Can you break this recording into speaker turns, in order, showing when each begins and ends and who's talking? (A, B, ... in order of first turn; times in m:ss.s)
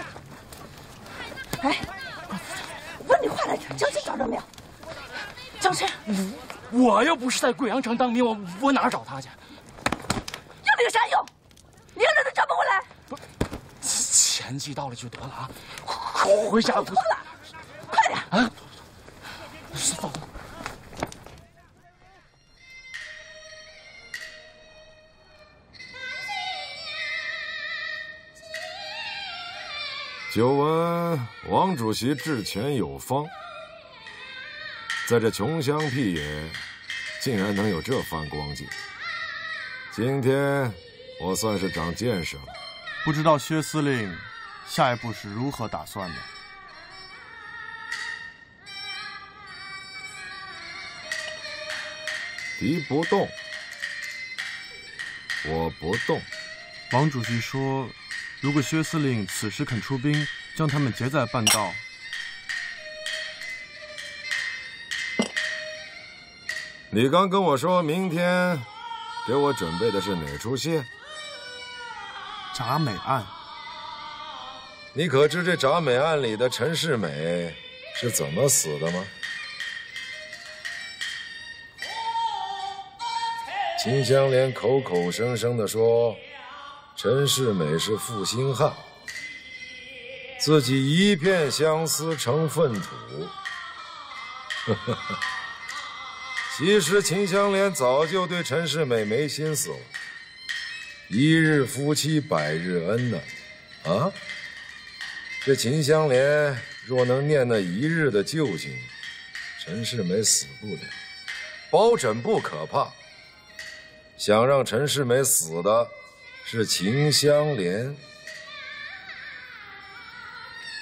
0:01.6-0:04.5 A
0:05.6-0:06.0 A
0:06.0-0:09.4 B
0:10.6-0:11.3 A
0:11.9-0:12.9 A
0:13.8-0:17.2 B
0:16.6-0:17.2 A
0:17.9-0:18.3 A
0:19.8-0:20.1 B
0:30.3-0:33.3 C
0:35.0-0:36.6 C
0:37.2-0:38.7 C
0:39.9-0:42.6 C
0:43.0-0:46.3 D
0:52.6-0:53.3 C
0:55.4-0:56.3 C
0:56.9-1:01.8 D
1:06.9-1:08.7 C
1:09.2-1:10.9 C
1:12.5-1:13.3 D
1:14.9-1:19.1 C
1:23.8-1:26.2 C
1:26.9-1:28.8 C
1:30.4-1:33.3 C
1:34.7-1:35.0 C
1:36.5-1:39.9 C
1:41.1-1:43.3 C
1:43.8-1:44.2 C
1:45.4-1:48.9 C
1:49.6-1:50.9 C
1:51.7-1:52.9 C
1:54.2-1:55.9 C
1:56.4-1:58.0 C